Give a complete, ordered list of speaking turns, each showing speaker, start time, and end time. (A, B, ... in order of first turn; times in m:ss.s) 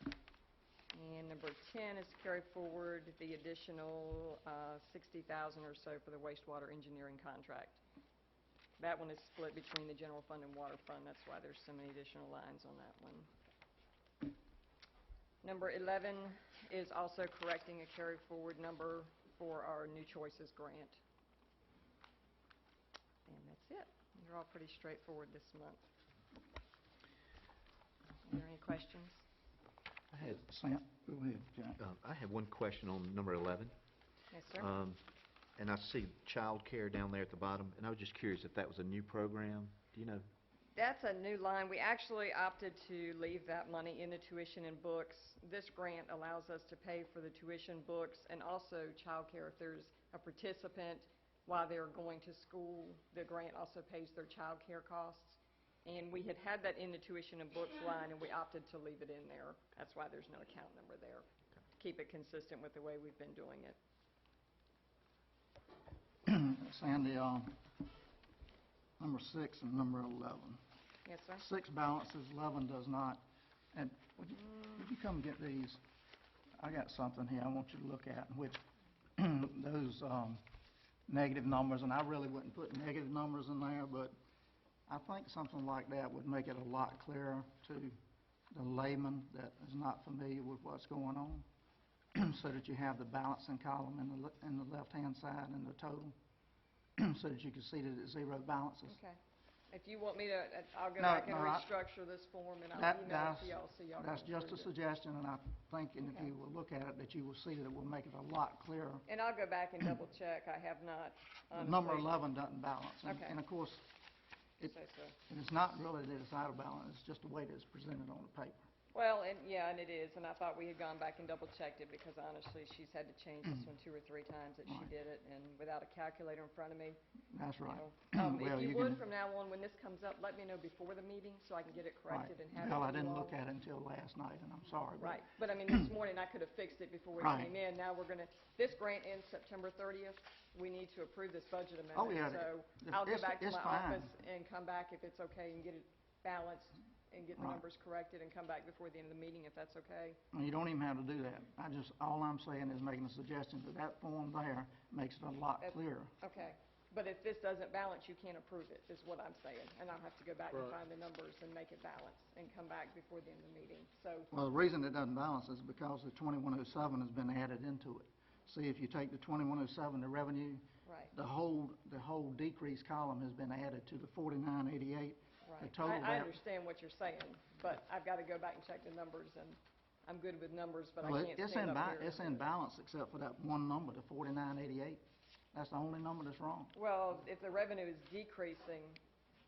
0:00.9-0:07.8 A
0:08.8-0:13.3 A
0:15.4-0:21.0 A
0:23.3-0:25.9 A
0:28.2-0:29.2 A
0:30.1-0:31.8 B
0:31.8-0:33.7 C
0:34.3-0:34.7 A
0:34.5-0:35.0 C
0:35.6-0:40.3 C
0:40.8-1:03.8 A
1:06.3-1:07.6 B
1:09.0-1:10.6 B
1:11.0-1:11.4 A
1:11.4-1:15.8 B
1:16.6-1:18.6 B
1:19.2-1:20.4 B
1:21.1-1:24.1 B
1:24.9-1:28.0 B
1:28.5-1:31.5 B
1:32.2-1:36.2 B
1:37.0-1:39.0 B
1:38.9-1:39.2 A
1:39.7-1:44.7 A
1:41.0-1:41.7 B
1:42.7-1:49.0 B
1:46.0-1:46.3 A
1:49.1-1:52.2 A
1:51.5-1:53.9 B
1:53.0-1:53.4 A
1:54.6-1:55.2 A
1:55.3-1:58.6 B
1:58.9-2:07.0 A
2:07.3-2:09.0 B
2:07.7-2:13.4 A
2:12.1-2:15.9 B
2:15.0-2:30.2 A
2:17.2-2:17.5 B
2:21.9-2:24.1 B
2:27.4-2:27.6 B
2:30.3-2:36.1 B
2:35.6-2:44.3 A
2:44.3-2:56.4 B
2:50.8-2:51.1 A
2:55.4-3:02.4 A
3:01.0-3:05.0 B
3:05.5-3:06.7 B
3:06.7-3:09.0 A